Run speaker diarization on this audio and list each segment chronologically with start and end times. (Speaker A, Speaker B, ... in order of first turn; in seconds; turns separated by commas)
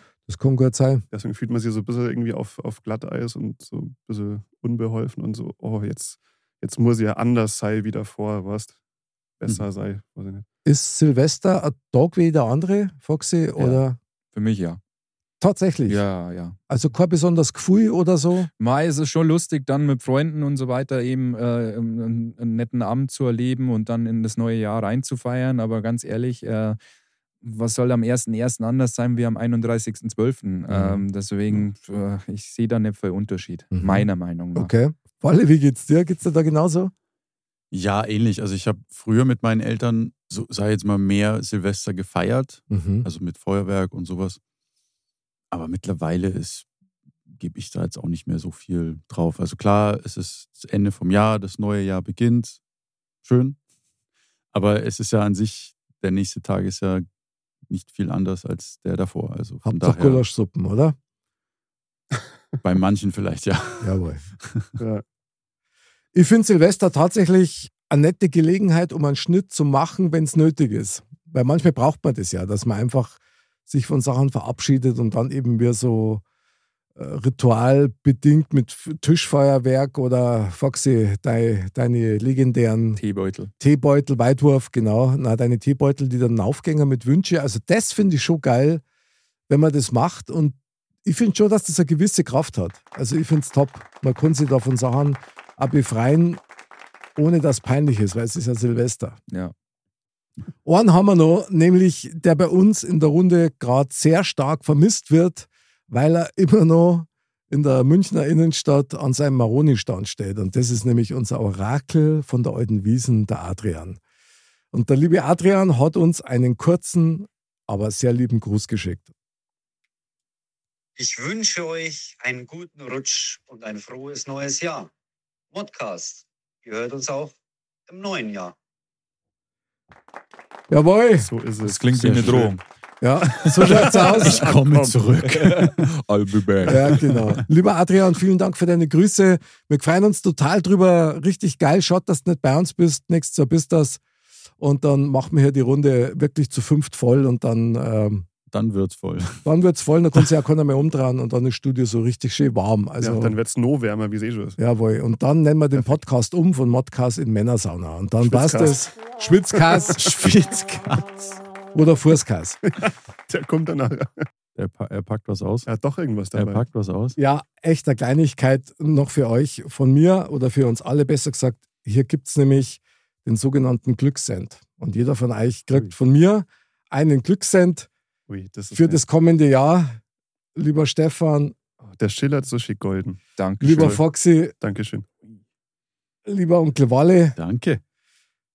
Speaker A: 0.3-1.1, Speaker B: 1.1-8.8, Speaker B: 9.4-10.4, Speaker A: 10.7-14.0, Speaker C: 14.3-14.8, Speaker A: 15.4-16.0, Speaker C: 15.9-16.6, Speaker A: 16.7-18.5, Speaker C: 18.6-26.8, Speaker C: 27.4-34.7, Speaker A: 30.7-31.0, Speaker A: 33.7-36.9, Speaker D: 37.7-44.4, Speaker A: 42.7-43.1, Speaker D: 45.5-46.7, Speaker D: 47.3-52.6, Speaker D: 53.2-53.6, Speaker D: 54.5-57.0, Speaker D: 57.7-60.2, Speaker A: 59.6-61.0, Speaker D: 62.6-64.7, Speaker A: 63.8-64.2, Speaker A: 66.1-76.2, Speaker A: 77.0-83.0, Speaker C: 83.0-83.5, Speaker A: 83.6-88.8, Speaker A: 89.5-96.4, Speaker A: 97.2-99.2, Speaker A: 100.6-114.0, Speaker A: 114.7-119.1, Speaker E: 121.0-124.9, Speaker E: 125.5-127.3, Speaker E: 127.9-128.6, Speaker A: 130.7-131.3, Speaker B: 131.2-132.5, Speaker C: 131.6-132.6, Speaker D: 131.9-132.5, Speaker A: 133.0-134.5, Speaker D: 133.5-136.0, Speaker B: 133.6-135.0, Speaker C: 135.3-137.3, Speaker A: 136.7-144.0, Speaker B: 136.7-137.0, Speaker A: 144.6-148.3, Speaker D: 148.5-149.5, Speaker A: 149.4-153.4, Speaker B: 153.0-154.6, Speaker A: 154.6-160.4, Speaker B: 158.2-158.8, Speaker B: 159.6-159.8, Speaker D: 160.0-161.3, Speaker A: 161.7-162.6, Speaker B: 162.7-164.3, Speaker D: 164.6-165.7, Speaker B: 165.7-166.6, Speaker D: 166.3-167.2, Speaker A: 167.2-177.9, Speaker B: 178.3-179.0, Speaker A: 178.7-180.0, Speaker A: 180.6-181.6, Speaker B: 182.0-183.2, Speaker C: 183.4-184.0, Speaker A: 183.6-184.5, Speaker B: 183.8-184.0, Speaker B: 184.6-185.1, Speaker A: 186.3-187.4, Speaker D: 187.4-187.8